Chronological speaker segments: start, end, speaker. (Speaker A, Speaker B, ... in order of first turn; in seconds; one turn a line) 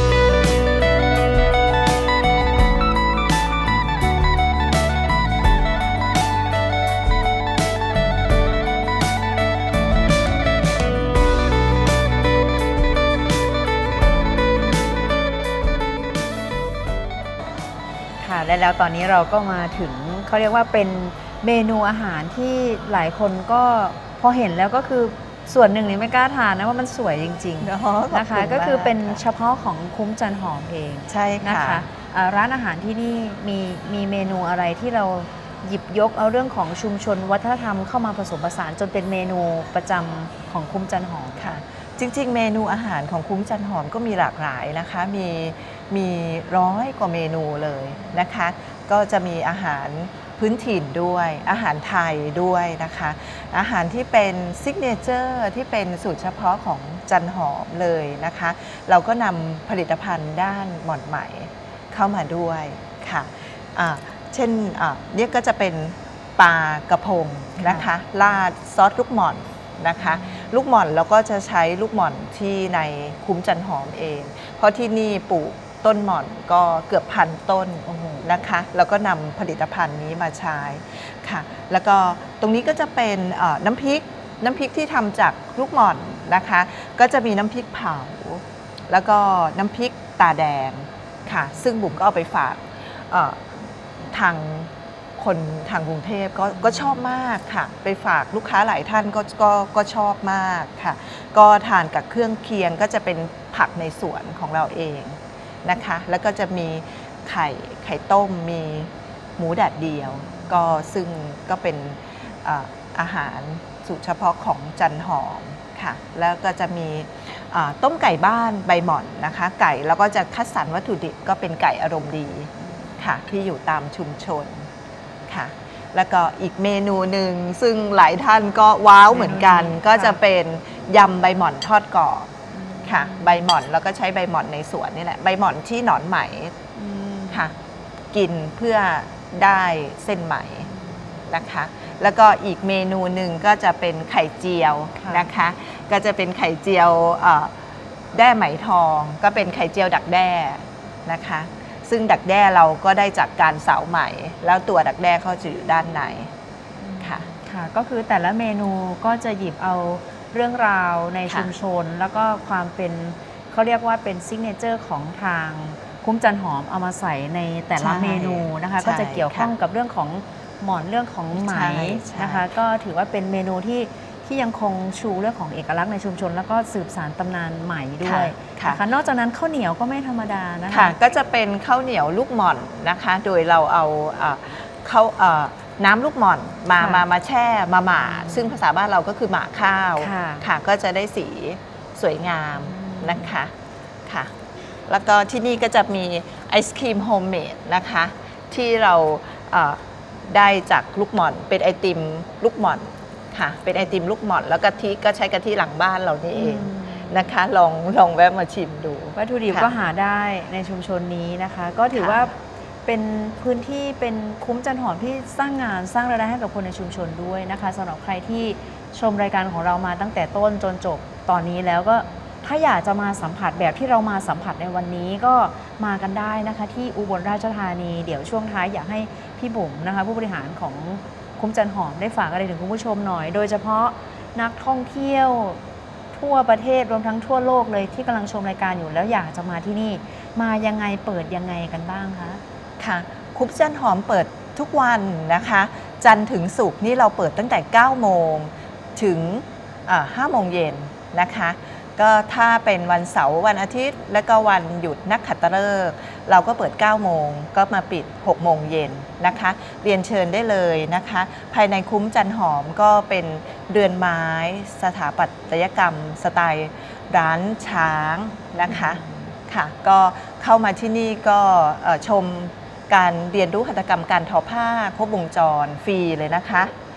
Speaker A: 18.2-41.5
Speaker B: 27.6-29.2
Speaker B: 31.1-31.9
Speaker B: 41.4-124.7
Speaker A: 67.6-67.9
Speaker B: 125.3-136.6
Speaker A: 129.1-130.2
Speaker A: 132.6-133.2
Speaker A: 136.8-137.4
Speaker B: 137.3-137.5
Speaker B: 138.1-140.7
Speaker B: 141.3-147.6
Speaker A: 145.0-145.3
Speaker B: 148.1-156.3
Speaker A: 156.8-180.9
Speaker B: 157.0-157.2
Speaker B: 167.8-169.5
Speaker B: 171.3-172.5
Speaker B: 178.0-178.8
Speaker B: 180.7-193.5
Speaker A: 186.8-187.0
Speaker A: 188.0-188.6
Speaker A: 190.0-190.5
Speaker A: 192.7-193.3
Speaker B: 194.1-194.3
Speaker B: 194.8-209.7
Speaker A: 206.3-207.2
Speaker A: 209.2-235.6
Speaker B: 211.9-212.3
Speaker A: 236.1-242.4
Speaker B: 242.8-276.7
Speaker A: 268.7-269.0